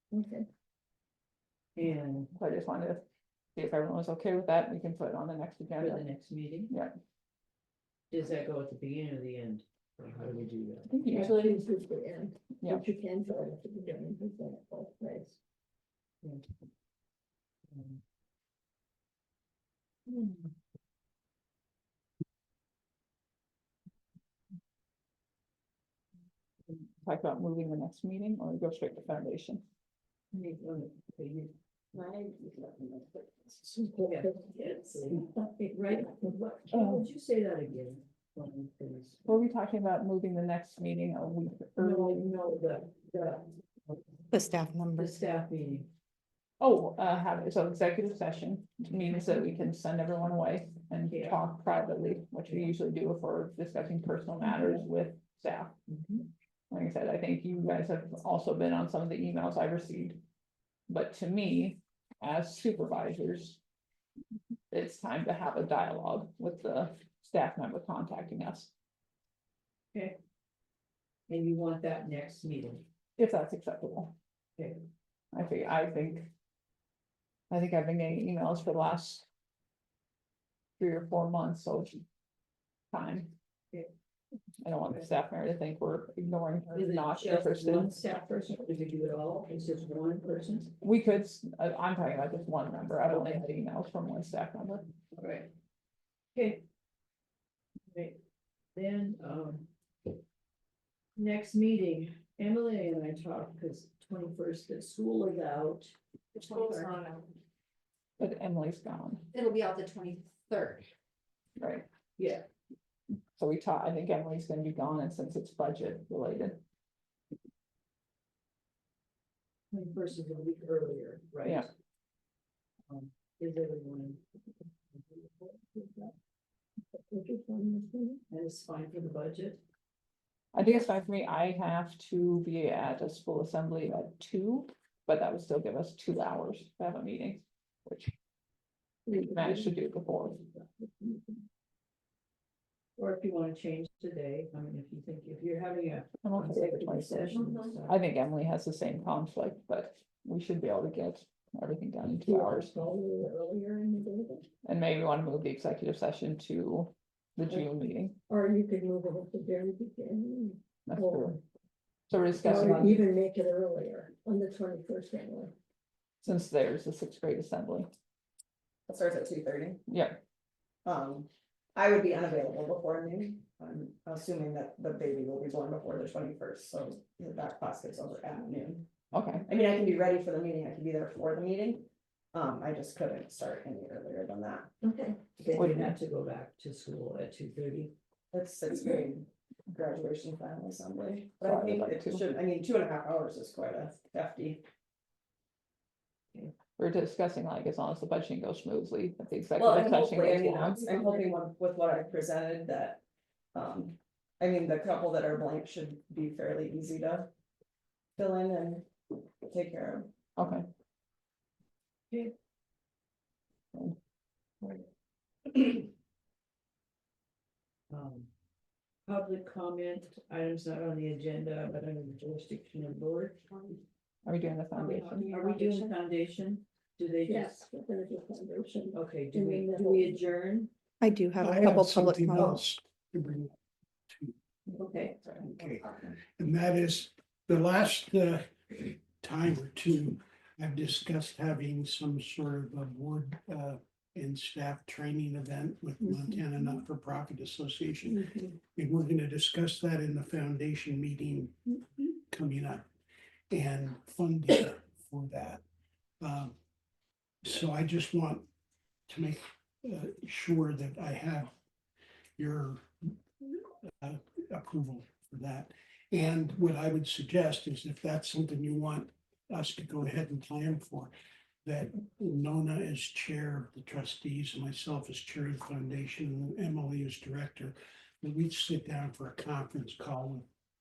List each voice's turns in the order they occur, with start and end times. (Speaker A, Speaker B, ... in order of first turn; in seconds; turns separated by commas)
Speaker A: 0.1-0.5, Speaker B: 1.8-2.3, Speaker C: 2.4-3.0, Speaker C: 3.5-6.0, Speaker B: 5.8-6.7, Speaker C: 6.7-7.0, Speaker B: 8.1-11.0, Speaker C: 10.9-11.7, Speaker A: 11.2-15.4, Speaker B: 17.7-18.0, Speaker B: 20.1-20.4, Speaker C: 27.0-29.6, Speaker B: 30.3-31.5, Speaker D: 31.9-33.5, Speaker A: 33.8-34.7, Speaker B: 34.0-39.2, Speaker C: 36.7-37.0, Speaker C: 39.3-42.3, Speaker B: 41.8-44.0, Speaker E: 44.3-45.1, Speaker B: 45.0-45.9, Speaker C: 46.6-55.7, Speaker B: 51.1-51.5, Speaker B: 55.9-56.3, Speaker C: 56.7-60.2, Speaker C: 60.9-63.6, Speaker C: 64.7-68.7, Speaker B: 71.3-72.8, Speaker C: 73.2-74.1, Speaker B: 74.6-74.8, Speaker C: 75.3-76.3, Speaker C: 77.5-79.2, Speaker C: 80.8-82.0, Speaker C: 82.9-83.3, Speaker C: 84.6-87.9, Speaker B: 86.7-90.7, Speaker C: 90.8-94.9, Speaker B: 93.1-93.4, Speaker B: 95.2-95.5, Speaker B: 96.3-96.6, Speaker B: 97.9-98.2, Speaker B: 98.8-100.1, Speaker B: 101.2-107.0, Speaker F: 106.3-107.3, Speaker C: 108.2-109.3, Speaker F: 109.3-110.9, Speaker C: 111.6-111.8, Speaker B: 112.2-112.5, Speaker C: 113.4-116.6, Speaker B: 119.7-121.7, Speaker B: 122.9-124.4, Speaker B: 124.9-126.1, Speaker A: 127.1-128.2, Speaker B: 128.3-129.6, Speaker C: 130.5-138.1, Speaker C: 139.1-140.4, Speaker A: 140.5-141.4, Speaker B: 143.0-147.9, Speaker C: 146.2-152.7, Speaker A: 152.2-154.5, Speaker C: 154.7-158.2, Speaker A: 158.3-161.3, Speaker C: 160.9-161.4, Speaker C: 162.1-163.0, Speaker A: 162.4-165.5, Speaker C: 166.2-167.9, Speaker D: 168.9-169.8, Speaker C: 169.9-170.2, Speaker D: 170.8-178.9, Speaker C: 179.1-179.5, Speaker D: 179.5-184.7, Speaker A: 184.8-185.4, Speaker B: 185.4-187.9, Speaker C: 185.6-185.9, Speaker D: 188.3-194.6, Speaker C: 191.4-192.2, Speaker C: 196.8-200.8, Speaker D: 199.6-203.0, Speaker D: 203.5-207.3, Speaker D: 208.2-208.9, Speaker D: 209.4-210.1, Speaker C: 210.4-210.7, Speaker B: 217.9-218.3, Speaker B: 219.1-223.8, Speaker C: 224.2-225.3, Speaker B: 224.8-227.7, Speaker A: 227.3-230.1, Speaker B: 228.9-230.7, Speaker E: 231.0-232.6, Speaker G: 231.4-233.6, Speaker G: 234.1-234.3, Speaker B: 234.7-235.6, Speaker G: 235.5-252.8, Speaker G: 253.5-255.6, Speaker G: 256.2-256.5, Speaker G: 257.4-258.5, Speaker G: 259.1-261.5, Speaker G: 262.4-263.1, Speaker G: 264.0-271.1, Speaker G: 271.6-280.5